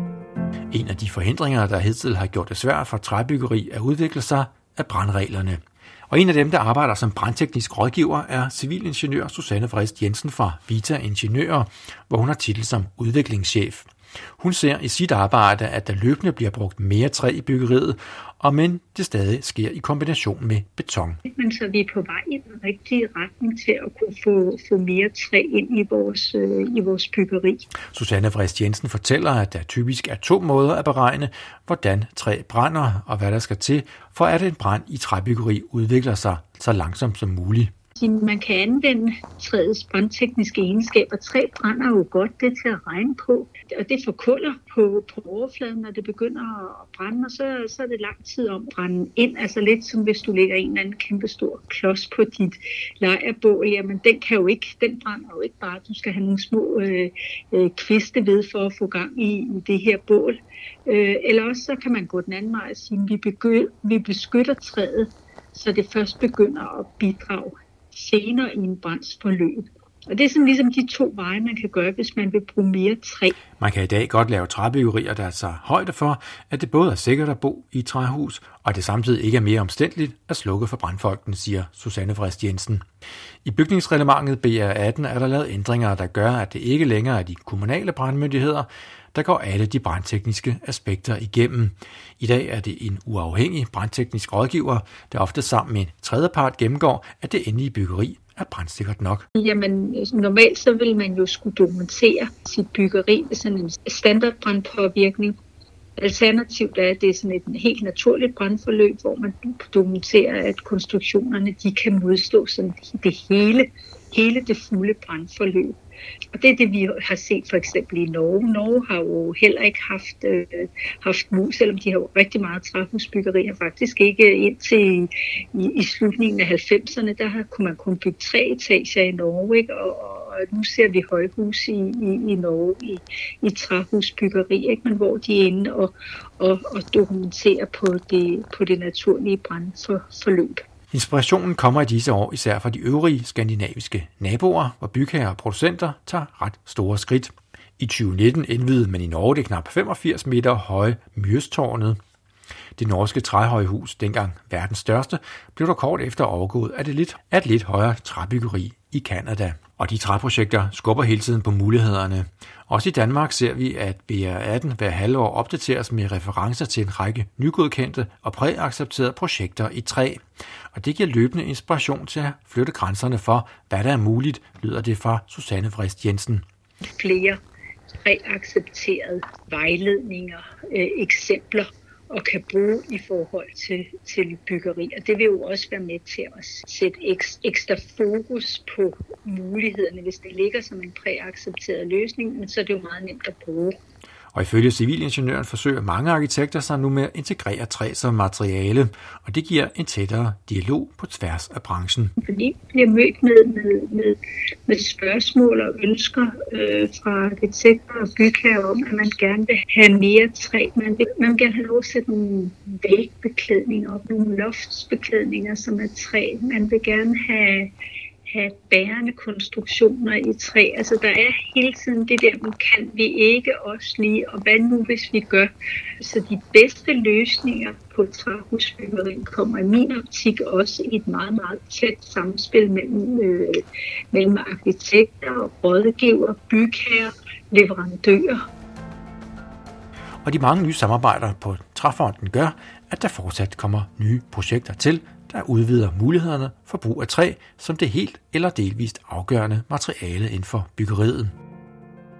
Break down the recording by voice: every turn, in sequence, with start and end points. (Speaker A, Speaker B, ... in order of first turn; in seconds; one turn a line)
Speaker A: 0.7-21.2
Speaker B: 21.2-27.7
Speaker A: 27.9-37.7
Speaker B: 38.0-73.3
Speaker A: 73.6-82.8
Speaker A: 83.4-99.3
Speaker B: 99.4-105.4
Speaker B: 106.0-115.8
Speaker B: 116.3-140.6
Speaker A: 140.9-152.0
Speaker A: 152.8-176.4
Speaker B: 176.9-177.4
Speaker B: 178.0-193.8
Speaker A: 194.3-202.1
Speaker B: 202.2-217.7
Speaker B: 218.3-238.4
Speaker A: 240.2-251.3